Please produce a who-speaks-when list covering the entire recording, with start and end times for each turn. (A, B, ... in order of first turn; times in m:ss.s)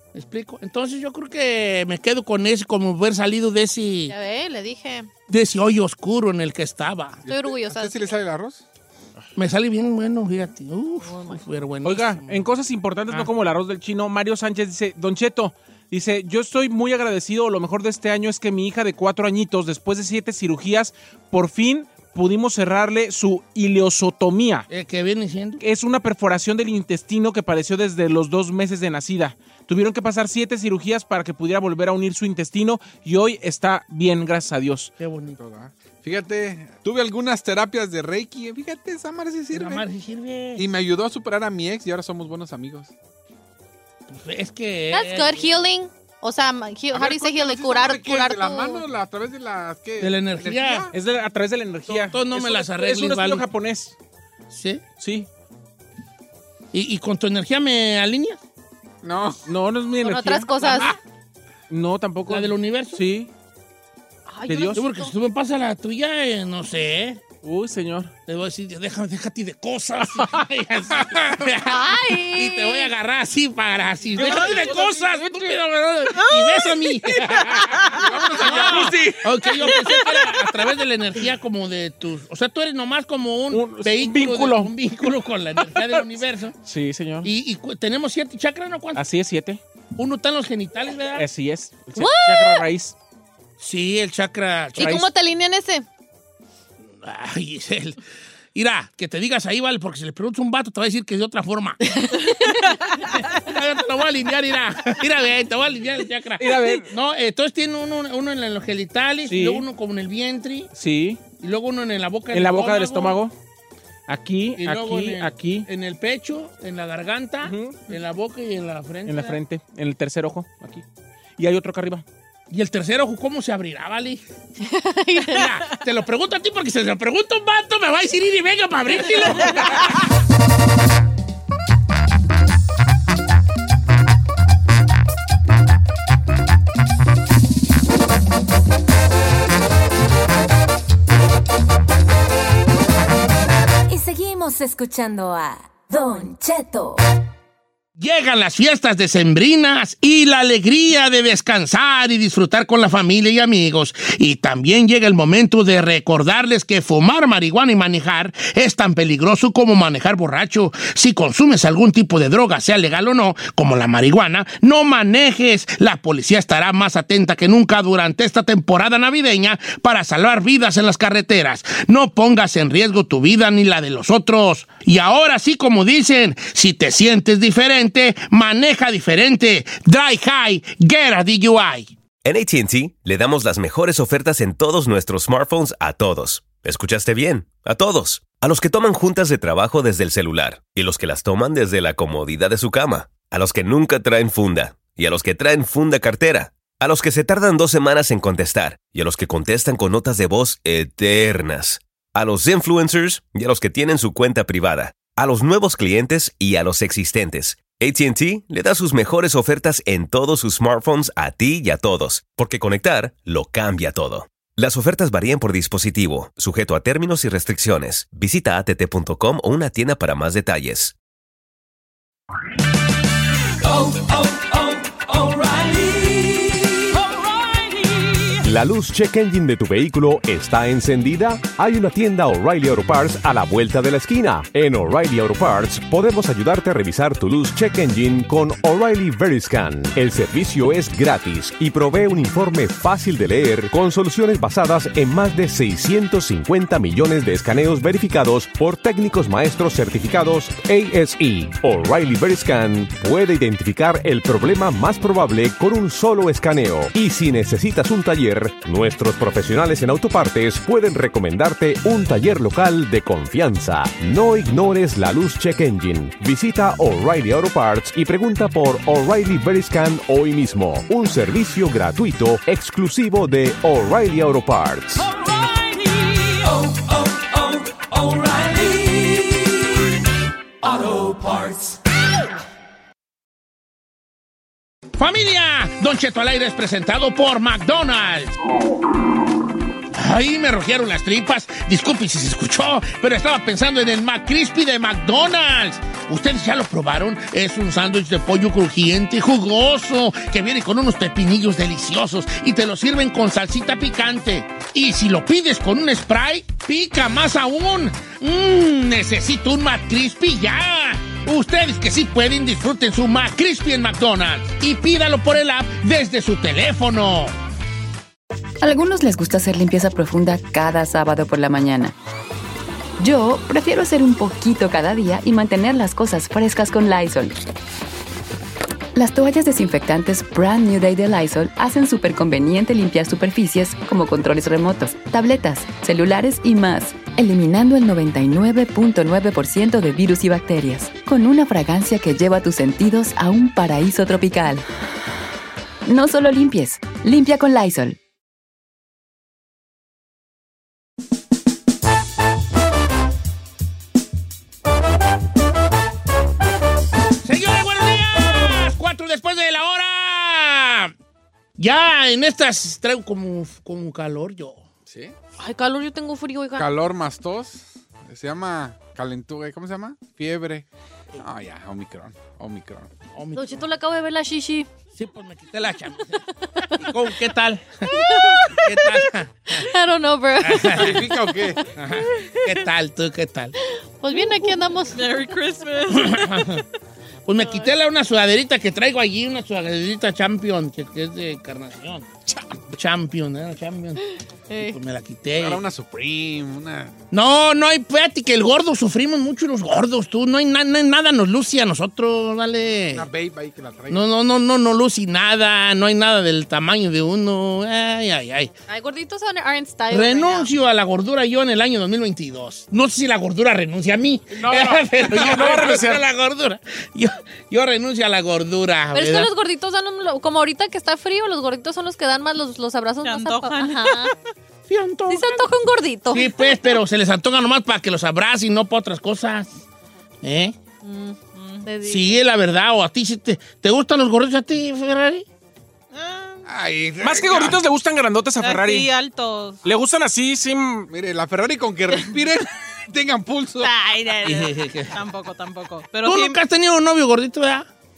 0:00.1-0:04.2 A
0:04.1-0:05.1 B
0:05.3-0:07.2 A
0:07.3-0:08.6 C
0:07.3-0:08.2 B
0:09.4-0:12.4 A
0:11.0-0:11.4 B
0:11.8-0:24.7 D
0:24.7-0:25.6 A
0:25.6-0:34.9 D
0:35.0-0:35.4 A
0:35.4-0:39.8 C
0:39.5-0:40.7 A
0:40.6-0:42.9 C
0:44.1-0:45.5 A
0:44.9-0:48.8 B
0:46.9-0:50.9 C
0:50.0-0:50.9 A
0:50.9-0:54.0 D
0:51.9-0:53.4 A
0:54.5-0:54.8 A
0:55.0-0:55.3 D
0:56.7-0:58.4 A
0:59.0-0:59.5 C
0:59.5-1:00.8 D
1:00.0-1:00.9 B
1:00.7-1:00.9 C
1:01.7-1:03.3 D
1:02.3-1:03.0 A
1:04.3-1:05.1 B
1:04.5-1:04.8 D
1:04.8-1:07.2 A
1:07.4-1:08.1 D
1:08.3-1:26.6 A
1:11.6-1:12.9 B
1:14.2-1:15.6 D
1:16.3-1:16.7 E
1:17.9-1:19.1 C
1:18.5-1:19.0 D
1:23.5-1:24.7 D
1:26.6-1:27.3 D
1:27.2-1:29.0 A
1:29.0-1:29.6 D
1:30.0-1:31.3 A
1:31.2-1:33.0 D
1:32.0-1:32.6 B
1:33.6-1:35.0 A
1:34.8-1:35.9 B
1:34.8-1:35.0 D
1:37.0-1:38.0 A
1:38.6-1:41.8 A
1:41.8-1:42.6 B
1:43.2-1:50.7 A
1:46.4-1:46.9 D
1:49.3-1:49.7 D
1:50.8-1:51.2 D
1:51.4-1:53.2 A
1:52.3-1:53.3 D
1:54.1-1:55.7 D
1:54.6-1:59.4 A
1:57.4-1:57.8 D
1:59.1-2:00.8 D
2:01.4-2:02.0 D
2:02.5-2:04.2 A
2:04.6-2:05.4 B
2:05.3-2:09.9 A
2:23.9-2:27.0 F
2:28.0-3:01.9 A
3:02.2-3:41.0 G
3:48.4-4:35.1 H
4:45.0-4:48.3 A
4:49.9-5:17.4 A
5:18.6-5:22.0 I
5:23.0-5:27.4 I
5:29.0-5:44.7 I
5:45.9-5:48.0 I
5:57.2-6:00.9 A
6:01.6-6:04.6 A
6:04.9-6:05.1 C
6:05.4-6:06.7 B
6:06.6-6:10.7 C
6:11.2-6:12.9 C
6:13.1-6:13.6 A
6:13.4-6:14.7 B
6:15.0-6:16.2 A
6:16.6-6:16.9 B
6:16.8-6:19.4 A
6:17.9-6:19.0 B
6:19.5-6:21.0 B
6:20.4-6:21.1 A
6:20.7-6:21.6 C
6:21.8-6:23.5 A
6:24.0-6:25.2 B
6:24.9-6:26.6 E
6:25.9-6:26.6 A
6:27.3-6:32.1 A
6:32.7-6:34.0 A
6:34.5-6:34.8 B
6:34.6-6:35.6 A
6:35.4-6:36.9 C
6:37.1-6:43.1 A
6:42.9-6:44.1 C
6:43.9-6:48.5 A
6:48.7-6:50.5 B
6:49.9-6:59.3 A
6:54.3-6:56.0 D
6:58.9-7:04.1 B
7:03.0-7:04.1 E
7:04.7-7:05.5 A
7:05.1-7:06.8 B
7:06.1-7:09.6 A
7:10.2-7:10.6 A
7:10.8-7:12.2 B
7:11.3-7:11.7 E
7:11.9-7:15.2 A
7:15.9-7:16.5 E
7:16.5-7:17.6 C
7:17.0-7:18.9 D
7:18.4-7:19.6 E
7:19.6-7:20.9 D
7:20.9-7:23.7 C
7:23.6-7:26.4 E
7:24.2-7:25.0 A
7:26.0-7:27.7 A